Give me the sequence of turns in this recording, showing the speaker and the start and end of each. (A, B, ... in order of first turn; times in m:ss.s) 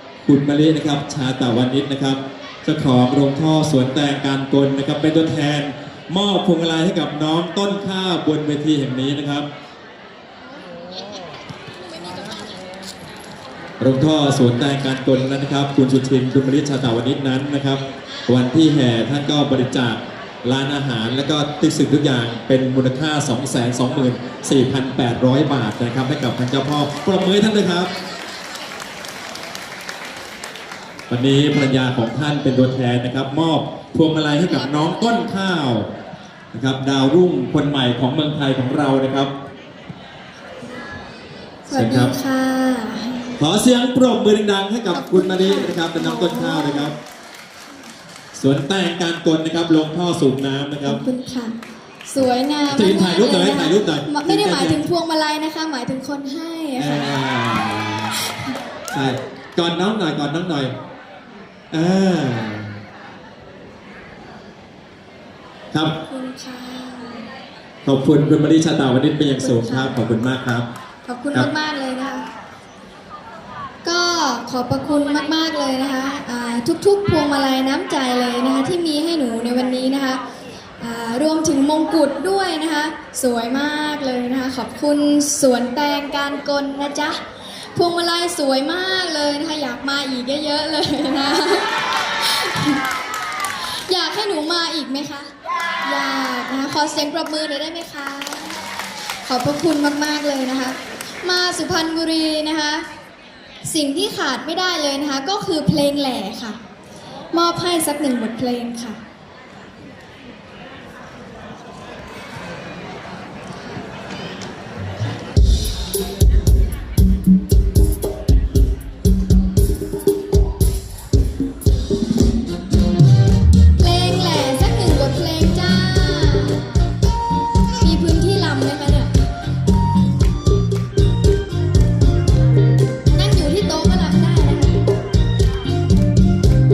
0:00.2-0:09.5 A
0:13.8-0:27.9 A
0:31.1-0:35.9 A
0:36.5-0:39.3 A
0:41.7-0:43.4 B
0:41.7-0:42.1 A
0:43.4-0:47.0 A
0:44.9-0:46.9 B
0:48.4-0:51.0 A
0:50.8-0:57.3 B
0:52.7-0:54.8 A
0:56.8-0:58.1 A
0:58.2-0:58.5 B
0:58.9-1:00.7 A
1:01.7-1:02.8 A
1:05.7-1:06.0 A
1:06.1-1:07.3 B
1:07.8-1:10.7 A
1:09.4-1:10.0 B
1:11.1-1:12.3 B
1:13.8-1:20.2 B
1:20.8-1:27.2 B
1:27.8-1:32.8 B
1:33.7-1:35.3 B
1:35.8-1:38.6 B
1:39.3-1:42.9 B
1:43.6-1:46.6 B
1:47.3-1:49.0 B
2:03.8-2:06.9 B
2:07.8-2:09.1 B
2:13.1-2:14.9 B